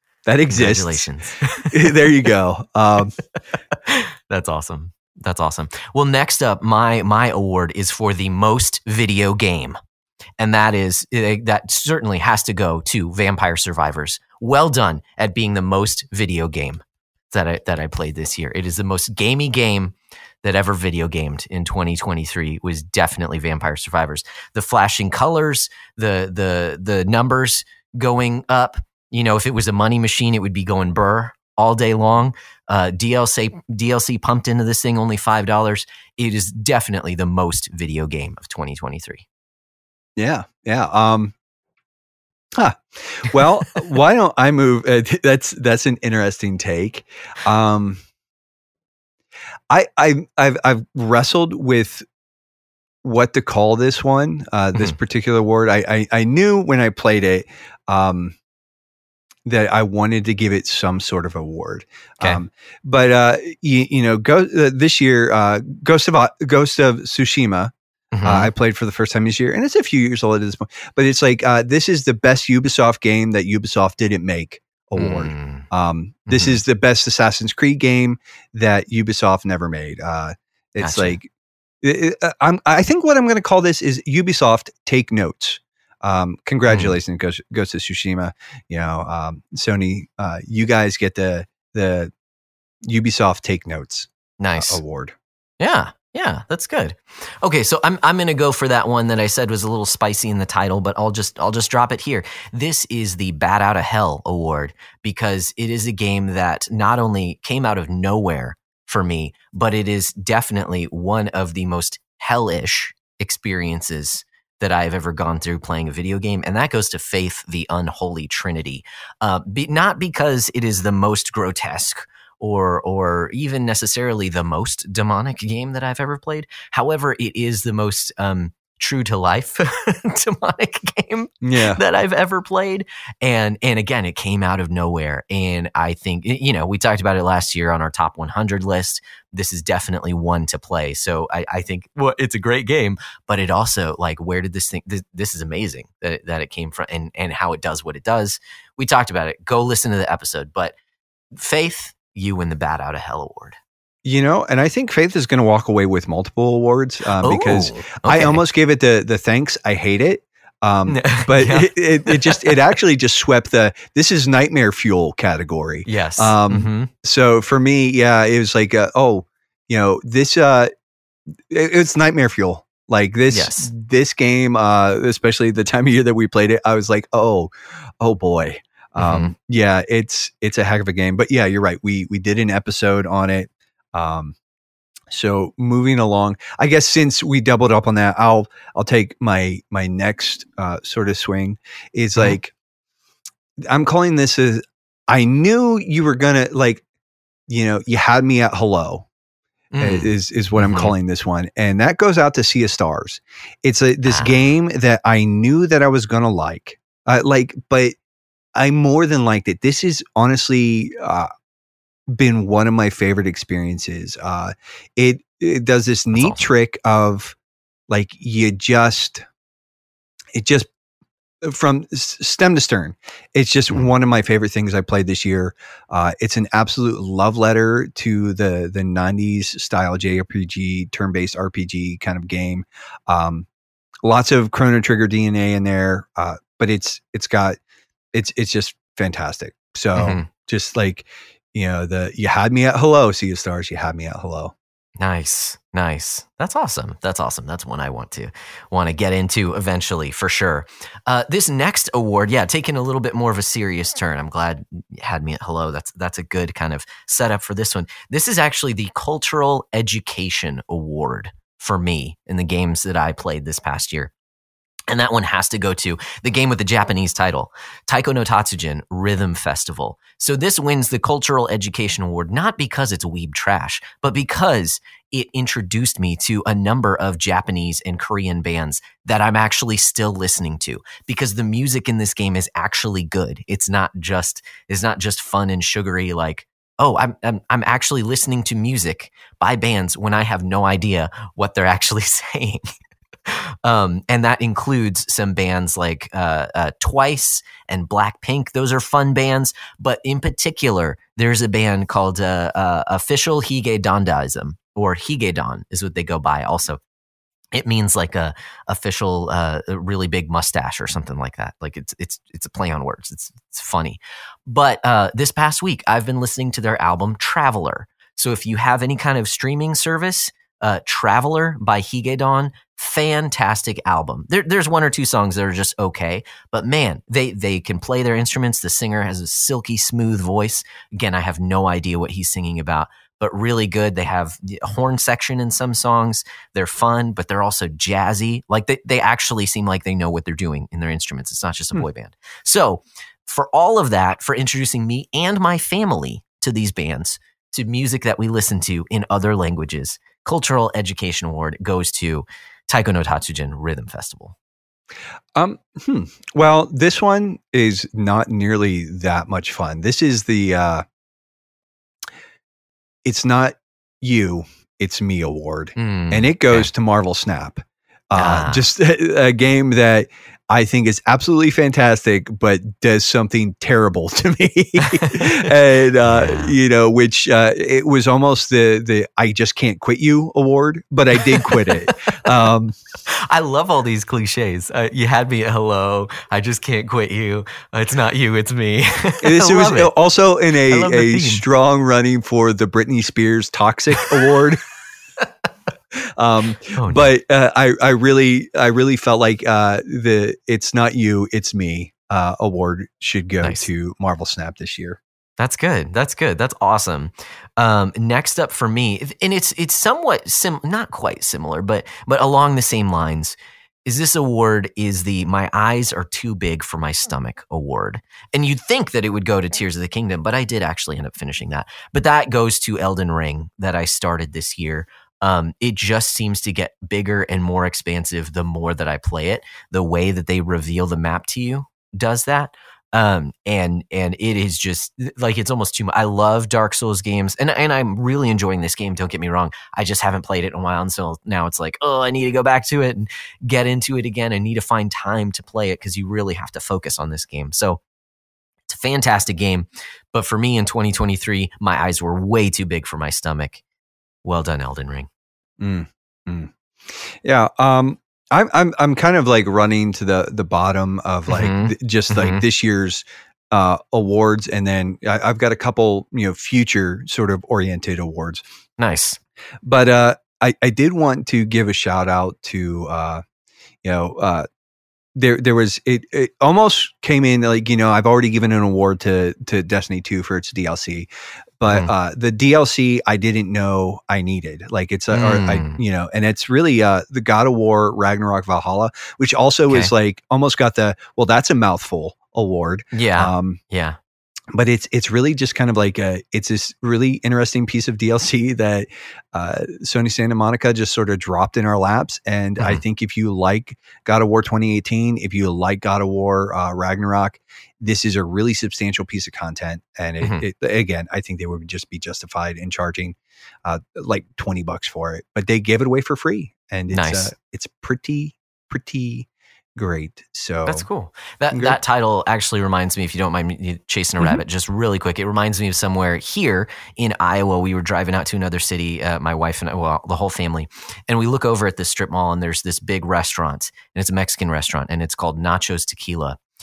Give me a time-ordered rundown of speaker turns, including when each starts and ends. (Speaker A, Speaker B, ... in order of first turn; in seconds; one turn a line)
Speaker A: 0.2-1.1
Speaker B: 0.5-1.9
Speaker A: 1.7-3.1
Speaker B: 3.9-9.8
Speaker B: 10.4-39.2
Speaker A: 40.1-41.3
Speaker A: 42.5-48.0
Speaker A: 49.7-52.0
Speaker A: 53.0-58.4
Speaker A: 59.5-67.7
Speaker B: 68.1-68.5
Speaker A: 68.2-81.3
Speaker B: 75.0-75.7
Speaker B: 76.3-76.6
Speaker B: 80.8-81.2
Speaker A: 81.8-92.1
Speaker B: 86.7-87.0
Speaker A: 92.8-95.1
Speaker B: 94.4-94.8
Speaker B: 95.6-150.7
Speaker A: 131.4-131.8
Speaker B: 151.3-153.6
Speaker A: 154.0-170.7
Speaker B: 157.2-158.4
Speaker B: 160.9-162.7
Speaker B: 165.8-166.9
Speaker A: 171.5-184.3
Speaker B: 173.3-173.7
Speaker B: 179.0-179.3
Speaker A: 185.1-192.5
Speaker A: 193.6-196.8
Speaker A: 197.5-199.1
Speaker B: 199.7-200.9
Speaker A: 199.8-207.9
Speaker B: 204.0-204.4
Speaker A: 208.5-211.3
Speaker A: 212.1-217.3
Speaker B: 216.1-216.4
Speaker A: 217.9-219.2
Speaker A: 220.3-220.7
Speaker A: 221.4-233.5
Speaker A: 234.0-237.6
Speaker A: 238.1-244.5
Speaker B: 239.9-240.3
Speaker B: 245.0-264.1
Speaker B: 264.9-292.6
Speaker B: 293.3-306.8
Speaker B: 307.5-354.3
Speaker A: 355.3-360.8
Speaker A: 363.0-382.8
Speaker B: 365.8-366.7
Speaker B: 368.1-368.6
Speaker B: 374.8-375.5
Speaker B: 376.0-376.5
Speaker B: 381.2-381.9
Speaker B: 383.1-389.9
Speaker A: 389.2-394.6
Speaker B: 390.7-391.4
Speaker A: 395.9-405.0
Speaker B: 396.7-397.1
Speaker B: 405.4-447.8
Speaker B: 448.7-453.6
Speaker B: 454.2-455.1
Speaker A: 455.6-468.4
Speaker B: 461.3-462.4
Speaker B: 468.8-469.2
Speaker A: 469.6-473.2
Speaker A: 473.8-474.5
Speaker A: 475.1-481.1
Speaker A: 481.6-493.6
Speaker B: 485.1-485.8
Speaker B: 492.9-494.0
Speaker A: 494.5-520.9
Speaker B: 516.9-517.3
Speaker B: 520.6-536.4
Speaker A: 521.5-521.8